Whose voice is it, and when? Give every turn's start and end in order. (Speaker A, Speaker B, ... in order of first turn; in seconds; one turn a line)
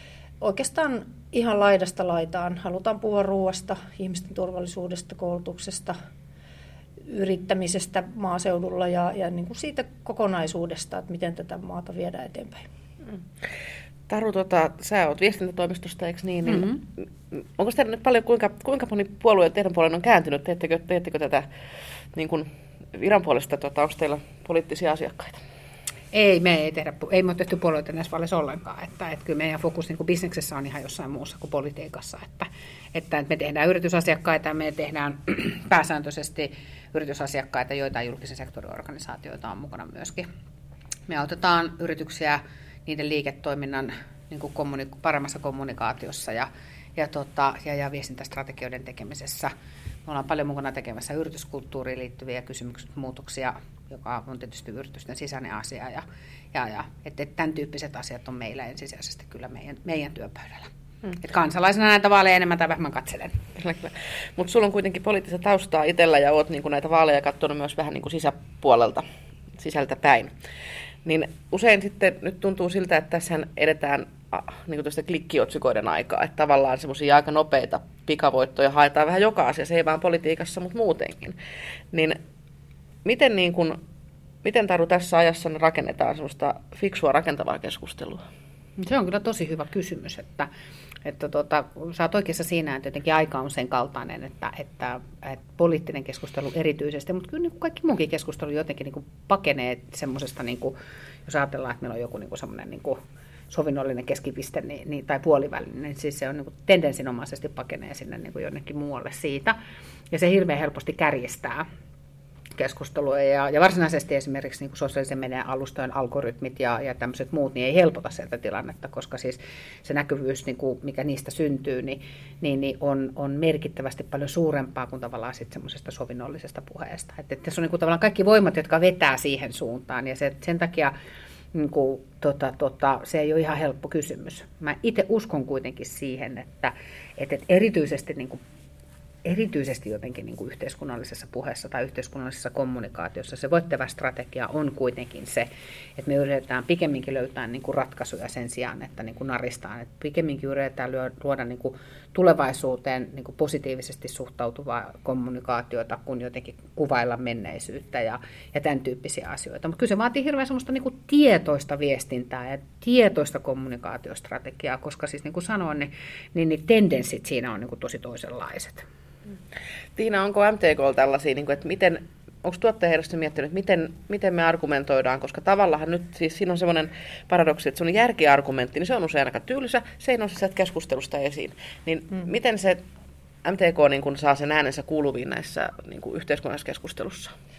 Speaker A: 0.4-5.9
Speaker A: 7.1-12.7
Speaker B: 14.1-21.5
Speaker C: 16.5-16.8
Speaker B: 22.1-25.4
Speaker C: 26.1-40.2
Speaker C: 41.1-49.5
Speaker C: 50.1-56.0
Speaker C: 56.5-63.4
Speaker B: 63.6-69.0
Speaker B: 69.6-70.3
Speaker B: 71.0-81.4
Speaker B: 81.9-82.2
Speaker B: 83.0-83.8
Speaker B: 84.4-88.2
Speaker C: 88.8-90.5
Speaker C: 91.0-100.7
Speaker C: 101.3-103.0
Speaker C: 103.5-109.6
Speaker C: 110.1-111.6
Speaker C: 112.6-130.9
Speaker C: 131.5-138.4
Speaker C: 139.2-168.8
Speaker B: 170.0-182.8
Speaker B: 183.4-187.3